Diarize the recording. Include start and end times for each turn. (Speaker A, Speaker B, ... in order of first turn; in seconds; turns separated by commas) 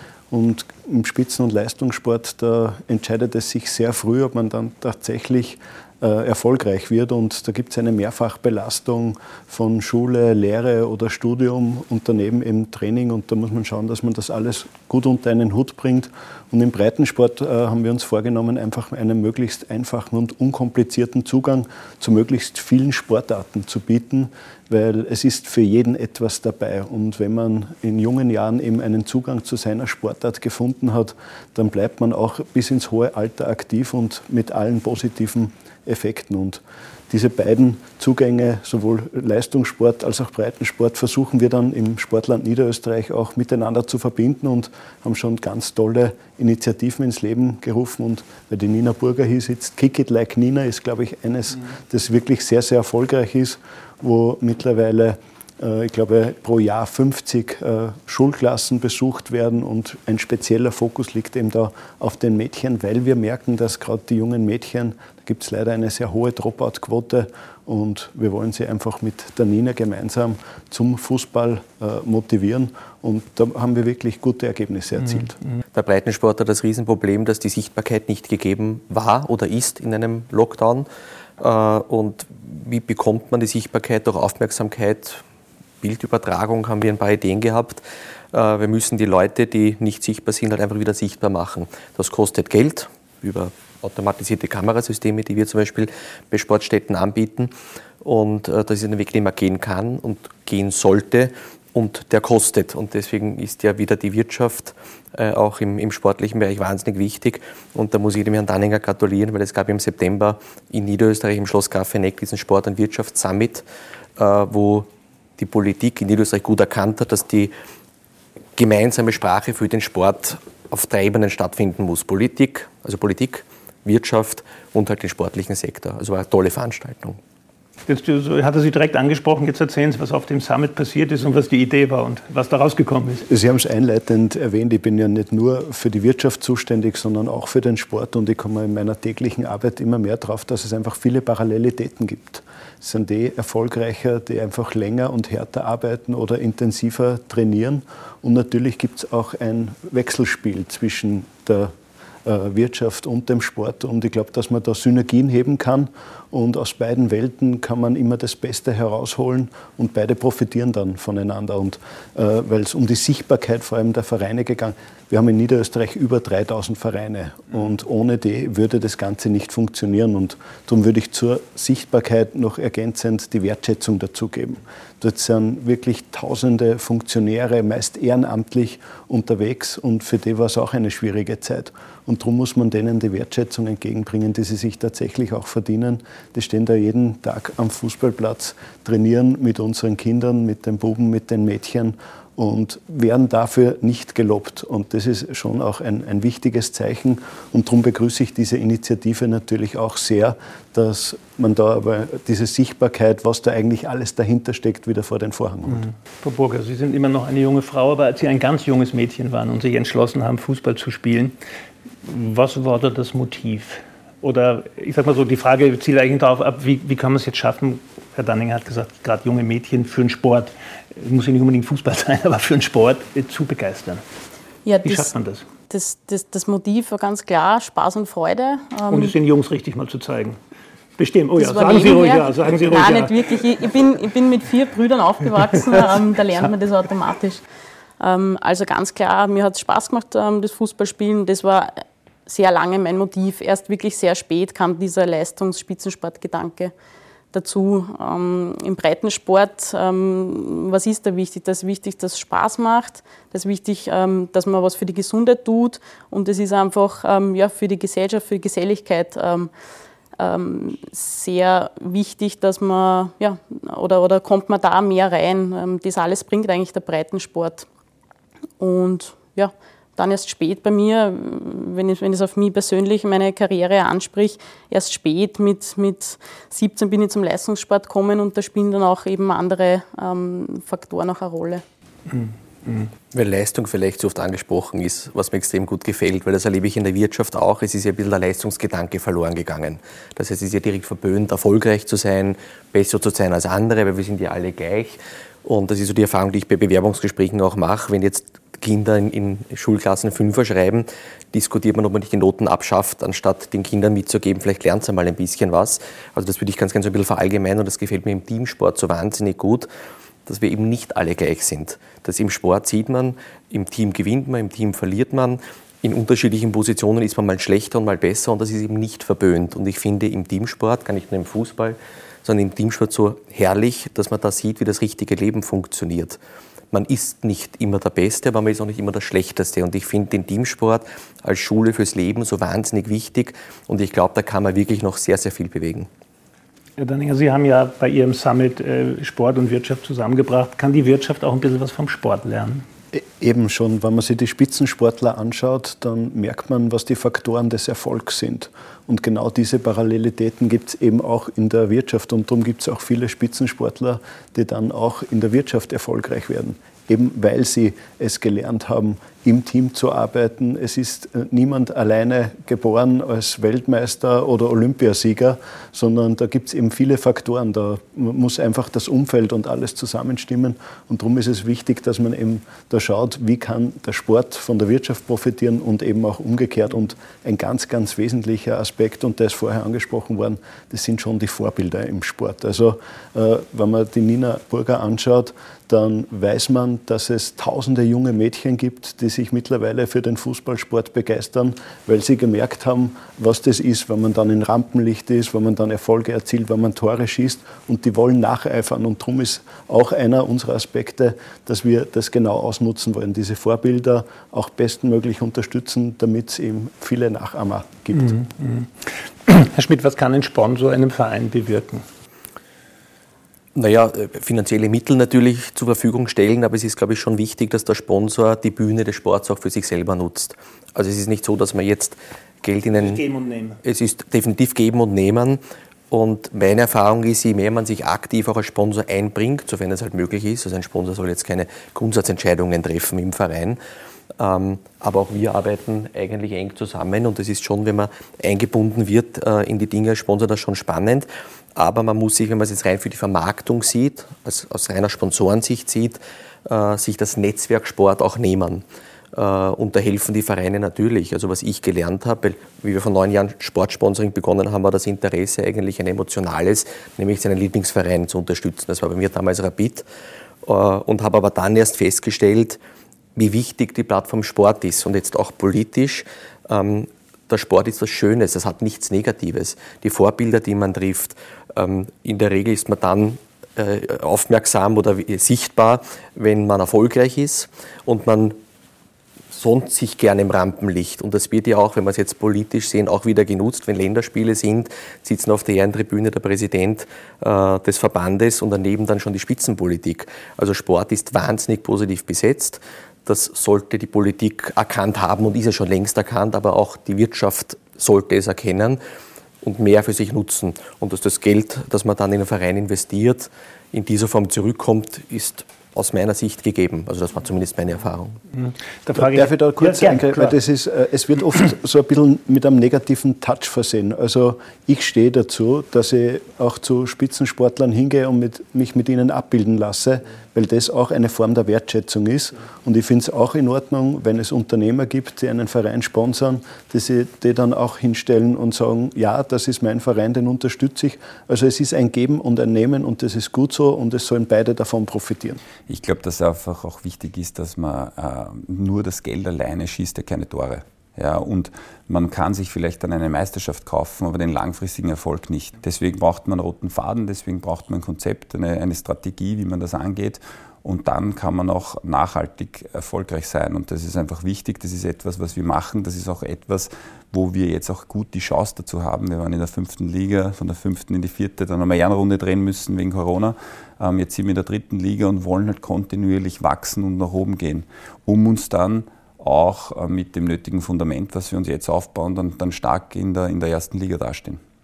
Speaker A: 0.3-75.4, Speaker B: 75.7-80.9, Speaker B: 81.4-85.2, Speaker B: 85.8-113.6, Speaker B: 114.2-117.5, Speaker B: 118.6-127.2, Speaker C: 127.9-133.2, Speaker A: 133.3-151.7, Speaker A: 152.2-205.8, Speaker C: 205.8-211.3, Speaker C: 212.0-224.0, Speaker D: 224.7-225.1, Speaker C: 224.8-225.5, Speaker D: 225.7-229.1, Speaker C: 228.9-230.4, Speaker C: 231.0-233.3, Speaker D: 231.4-237.4, Speaker C: 235.7-236.0, Speaker D: 238.0-246.7, Speaker D: 247.3-259.5, Speaker D: 260.2-267.7, Speaker D: 268.6-281.6, Speaker C: 282.1-282.9, Speaker B: 283.1-309.7, Speaker B: 310.3-326.2, Speaker B: 326.7-335.9, Speaker C: 336.8-342.6, Speaker A: 342.9-408.1, Speaker C: 408.0-411.9, Speaker B: 413.6-423.0, Speaker C: 422.7-423.6, Speaker B: 423.6-433.6, Speaker B: 434.2-459.9, Speaker B: 460.4-462.6, Speaker B: 463.2-478.4, Speaker B: 479.3-498.8, Speaker B: 499.4-508.2, Speaker C: 508.3-510.4, Speaker A: 508.9-535.4, Speaker E: 535.7-574.4